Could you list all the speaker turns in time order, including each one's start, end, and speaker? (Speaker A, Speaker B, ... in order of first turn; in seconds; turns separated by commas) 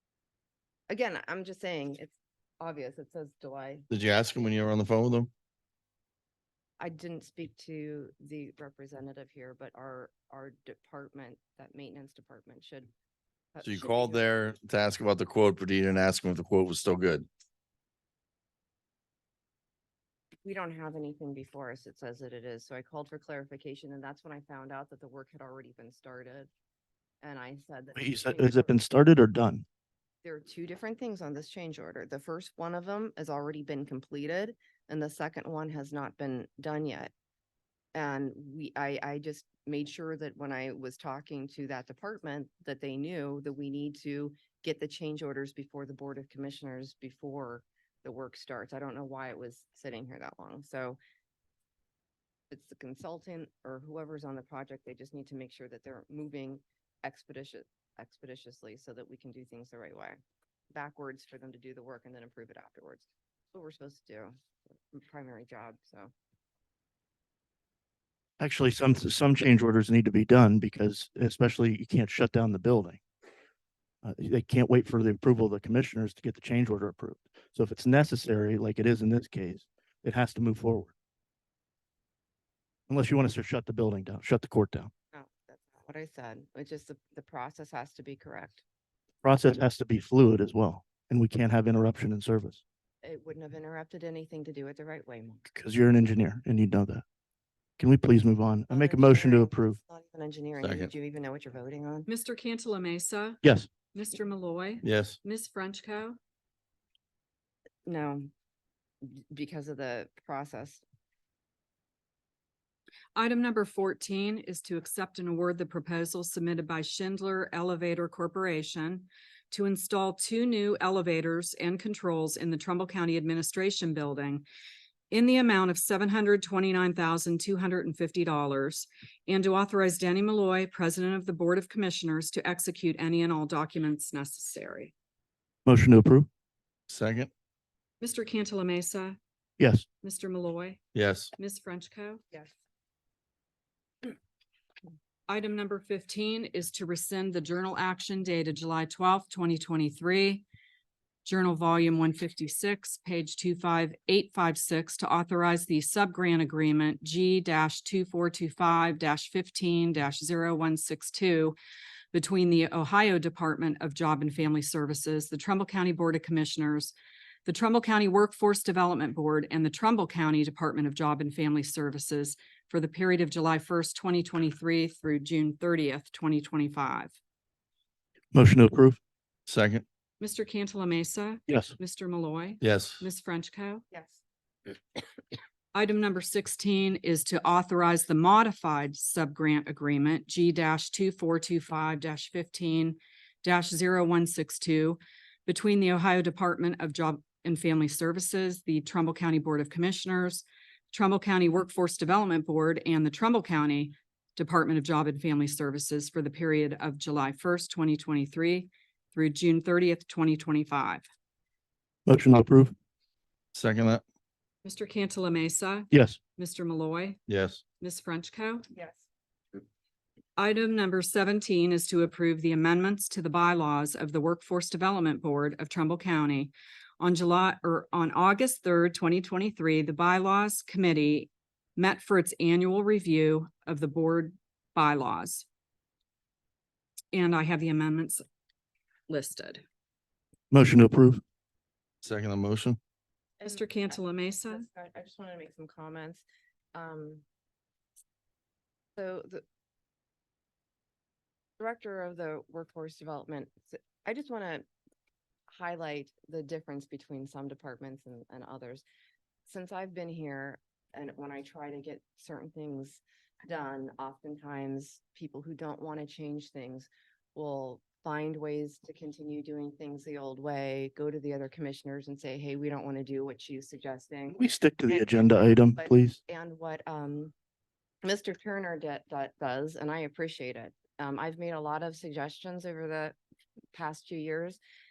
Speaker A: 0.9-3.9, Speaker B: 3.9-5.3, Speaker A: 6.8-12.9, Speaker A: 13.6-14.2, Speaker B: 13.6-17.3, Speaker A: 20.4-26.5, Speaker A: 27.2-28.8, Speaker C: 27.9-29.6, Speaker A: 30.2-37.1, Speaker A: 37.9-51.0, Speaker A: 52.5-60.2, Speaker A: 60.7-64.3, Speaker A: 64.9-66.1, Speaker C: 68.4-73.0, Speaker C: 74.0-80.9, Speaker C: 82.9-84.9, Speaker A: 85.1-88.6, Speaker C: 89.2-92.6, Speaker A: 93.0-95.4, Speaker C: 95.5-97.0, Speaker C: 97.8-99.8, Speaker A: 98.7-102.1, Speaker B: 100.6-100.9, Speaker D: 102.1-103.4, Speaker C: 103.4-103.7, Speaker D: 103.9-106.2, Speaker B: 104.8-105.2, Speaker A: 107.8-108.3, Speaker A: 109.0-110.8, Speaker D: 113.2-124.5, Speaker D: 125.1-134.9, Speaker C: 135.7-136.3, Speaker B: 136.9-137.3, Speaker D: 138.0-139.2, Speaker C: 139.6-139.9, Speaker D: 140.0-140.8, Speaker B: 140.9-141.3, Speaker D: 141.4-142.2, Speaker D: 145.3-150.4, Speaker D: 151.2-161.6, Speaker D: 162.1-166.9, Speaker D: 167.5-177.1, Speaker C: 178.3-179.0, Speaker B: 179.5-179.8, Speaker D: 180.2-183.8, Speaker C: 181.5-181.7, Speaker B: 182.6-183.0, Speaker A: 183.9-184.2, Speaker D: 185.7-211.1, Speaker C: 212.1-212.8, Speaker B: 213.6-214.0, Speaker D: 214.6-217.2, Speaker C: 215.9-216.2, Speaker B: 217.3-217.6, Speaker D: 217.8-218.7, Speaker A: 218.7-219.1, Speaker D: 220.4-235.5, Speaker D: 237.1-238.2, Speaker D: 239.1-239.6, Speaker C: 240.5-241.2, Speaker B: 242.0-242.8, Speaker A: 243.4-247.2, Speaker D: 243.4-244.7, Speaker A: 249.0-249.4, Speaker A: 251.6-254.7, Speaker A: 255.5-258.8, Speaker A: 259.5-277.3, Speaker C: 274.3-276.2, Speaker A: 278.0-283.1, Speaker A: 283.7-284.6